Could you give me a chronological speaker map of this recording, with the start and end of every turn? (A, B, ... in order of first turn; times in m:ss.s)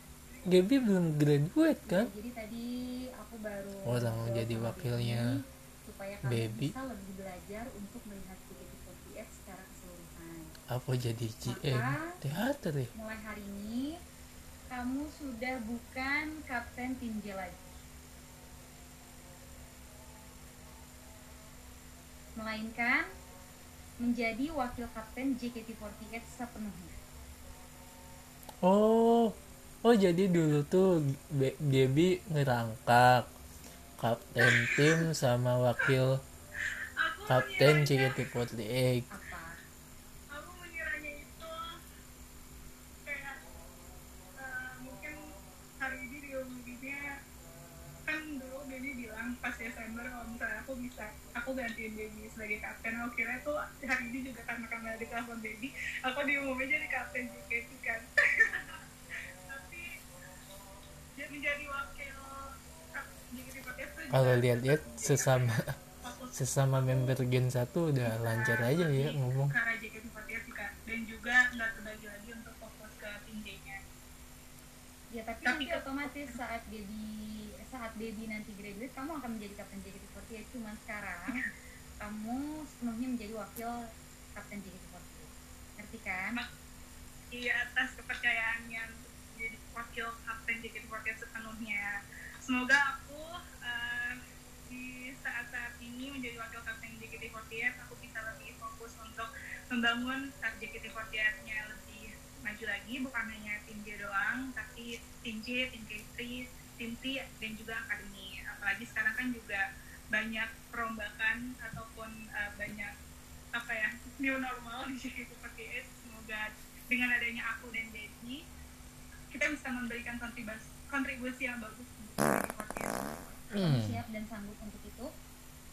0:00.2-0:01.0 A
0:00.4-0:02.1 B
0:01.9-0:10.5 C
0:03.8-0:05.4 B
0:06.2-0:06.7 B
0:10.7-0:12.9 B
0:11.4-0:12.2 C
0:12.9-0:14.0 C
0:14.7-0:17.8 C
0:22.4-0:23.1 C
0:24.0-0:27.0 C
0:28.6-0:33.3 B
0:34.0-0:36.2 B
0:37.0-0:37.9 A
0:37.3-0:39.1 B
0:39.1-0:39.5 C
0:40.3-0:41.6 A
0:43.0-0:43.4 A
0:44.4-0:45.2 A
0:45.8-0:47.0 A
0:48.1-0:58.8 A
0:59.5-0:59.8 A
1:01.2-1:02.2 A
1:02.9-1:07.2 A
1:04.1-1:05.6 B
1:06.3-1:09.5 B
1:08.0-1:13.8 A
1:15.1-1:21.4 C
1:15.4-1:16.4 A
1:22.0-1:23.7 C
1:24.4-1:26.4 C
1:27.3-1:34.2 A
1:34.7-1:52.9 A
1:53.5-1:58.4 A
1:59.3-2:03.4 A
2:03.5-2:04.0 B
2:03.6-2:05.1 C